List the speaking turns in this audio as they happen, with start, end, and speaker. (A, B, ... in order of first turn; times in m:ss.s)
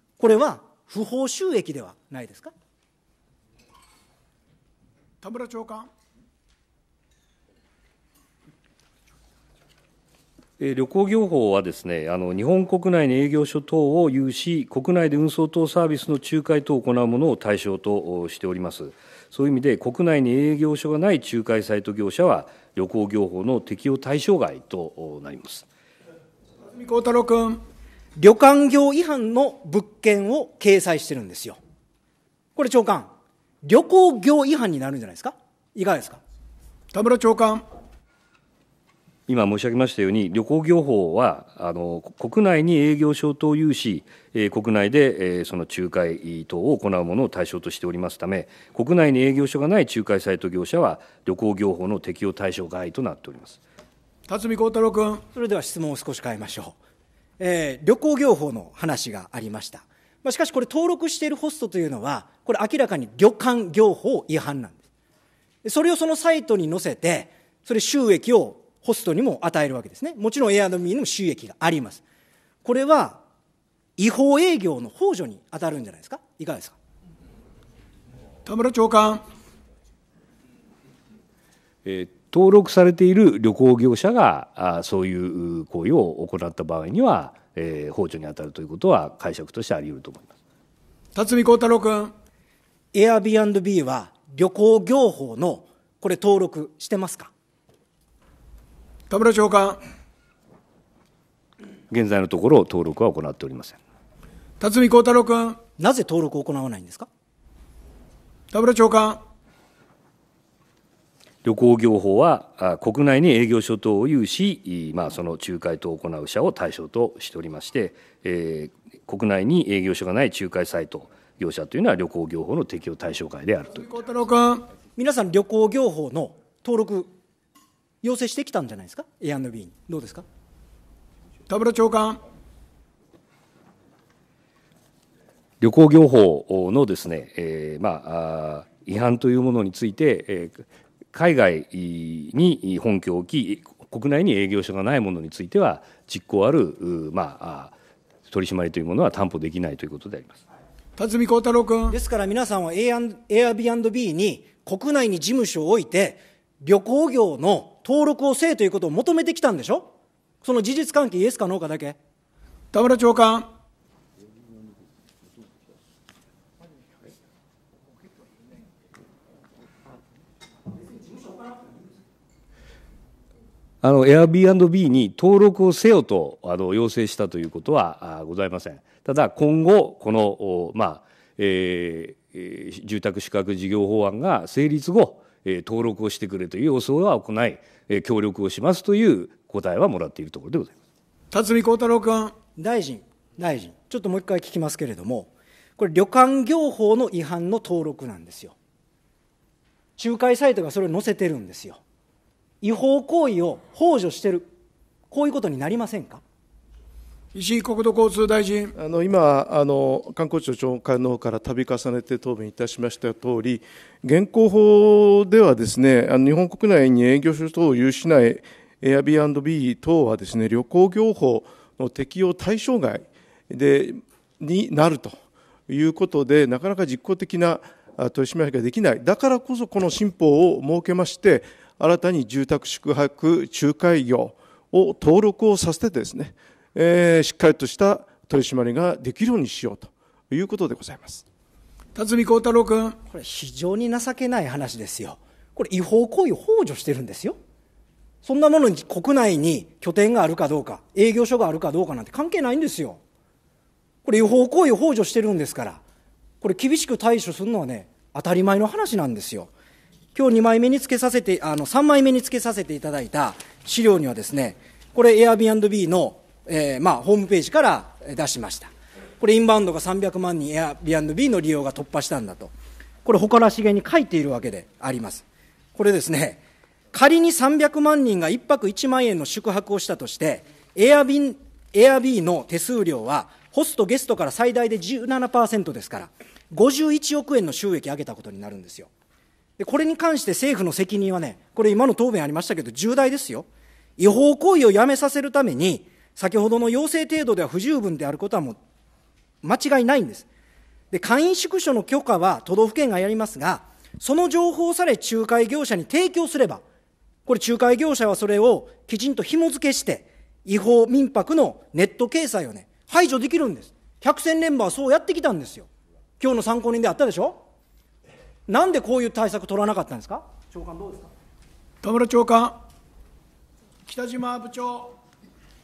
0:00.2-0:02.5 A
0:05.2-0:05.9 B
0:10.6-0:25.6 C
0:26.6-0:27.6 B
0:28.2-0:31.6 A
0:32.6-0:33.1 A
0:33.6-0:36.2 A
0:36.9-0:37.6 B
0:39.3-0:53.6 C
0:54.3-0:55.2 B
0:55.3-0:56.8 A
0:57.4-1:04.8 A
1:05.6-1:12.0 A
1:12.6-1:13.2 A
1:14.0-1:16.8 A
1:18.4-1:19.2 B
1:21.8-1:30.3 C
1:31.1-1:32.1 B
1:32.9-1:37.3 A
1:39.1-1:39.8 B
1:41.9-1:43.8 C
1:44.6-1:45.6 B
1:45.8-1:47.1 A
1:48.5-1:49.2 B
1:51.4-2:03.9 C
2:03.8-2:04.6 B
2:05.0-2:07.1 A
2:08.0-2:10.2 A
2:11.5-2:12.2 B
2:15.6-2:27.7 C
2:28.3-2:30.4 C
2:31.0-2:32.0 B
2:31.9-2:39.9 A
2:40.4-2:42.0 A
2:42.7-2:43.5 B
2:53.8-3:10.7 C
3:11.3-3:12.3 B
3:12.6-3:18.5 A
3:20.0-3:21.8 A
3:22.6-3:24.5 A
3:25.1-3:26.2 A
3:27.3-3:28.7 B
3:28.8-3:45.2 D
3:45.7-4:01.2 D
4:02.0-4:03.0 B
4:03.1-4:07.4 A
4:08.2-4:13.0 A
4:14.0-4:15.8 A
4:16.4-4:19.5 A
4:20.1-4:32.5 A
4:33.0-4:35.2 A
4:35.7-4:48.9 A
4:49.6-4:53.4 A
4:54.0-4:58.6 A
4:59.4-5:00.3 A
5:00.9-5:06.6 A
5:07.2-5:15.7 A
5:16.2-5:17.4 A
5:18.5-5:21.1 A
5:21.8-5:22.6 B
5:23.9-5:24.9 B